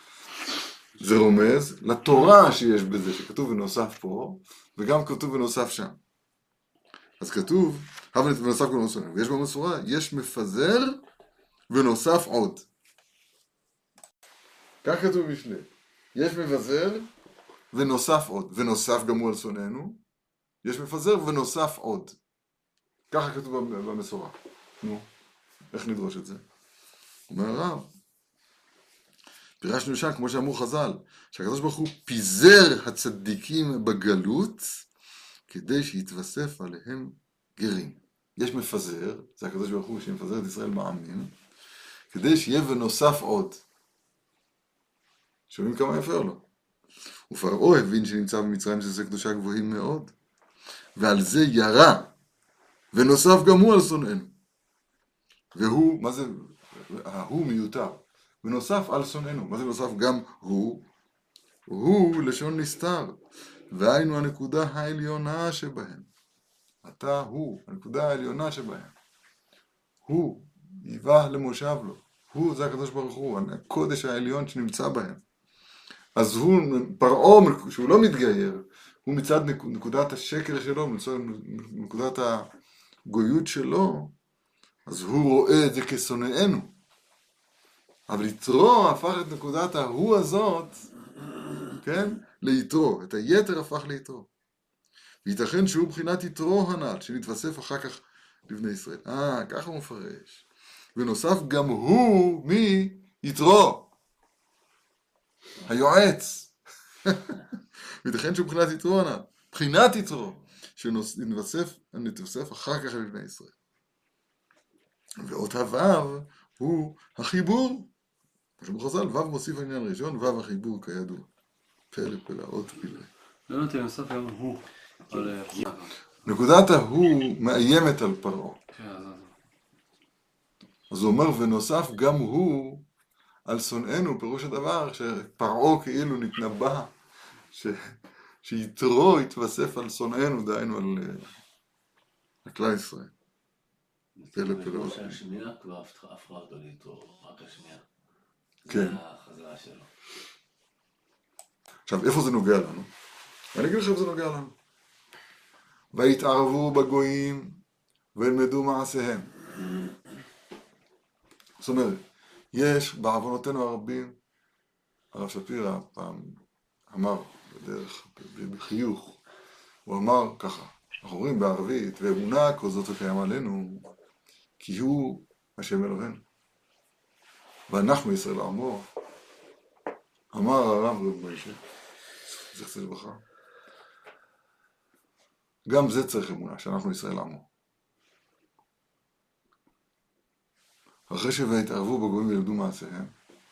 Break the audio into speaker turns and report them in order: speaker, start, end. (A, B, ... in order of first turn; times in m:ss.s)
0:01.0-0:06.0 A
0:07.2-0:11.0 A
0:11.7-0:12.6 A
0:14.8-0:17.1 A
0:17.7-0:20.0 A
0:20.6-0:22.2 A
0:23.1-0:25.1 A
0:25.7-0:26.4 A
0:27.3-0:27.9 A
0:29.6-0:34.8 A
0:35.5-0:41.3 A
0:42.1-0:43.6 A
0:45.5-0:46.4 A
0:47.3-0:50.1 A
0:51.0-0:52.1 A
0:52.9-0:54.3 A
0:55.5-1:00.8 A
1:01.7-1:06.1 A
1:06.8-1:08.9 A
1:10.0-1:15.2 A
1:16.2-1:22.5 A
1:23.0-1:24.1 A
1:24.8-1:26.7 A
1:28.1-1:30.9 A
1:31.7-1:34.3 A
1:35.2-1:43.9 A
1:45.6-1:46.5 A
1:47.0-1:47.4 A
1:48.0-1:53.5 A
1:55.2-1:57.9 A
1:58.6-2:01.3 A
2:01.9-2:03.1 A
2:03.5-2:05.9 B
2:06.2-2:08.6 A
2:08.7-2:09.3 B
2:10.9-2:12.8 A
2:13.5-2:16.9 A
2:17.5-2:21.3 A
2:22.4-2:23.1 A
2:24.2-2:27.8 C
2:24.3-2:25.2 A
2:28.7-2:29.0 A
2:28.7-2:29.9 C
2:31.9-2:32.9 A
2:33.5-2:34.5 A
2:35.9-2:37.6 A
2:38.1-2:39.3 A
2:41.6-2:42.0 A
2:42.5-2:44.1 A
2:45.1-2:46.4 A
2:46.9-2:49.2 A
2:49.8-2:53.9 A
2:54.6-2:56.2 A
2:57.7-2:58.9 A
3:00.3-3:01.6 A
3:02.5-3:03.2 A
3:05.7-3:07.4 A
3:11.1-3:13.1 A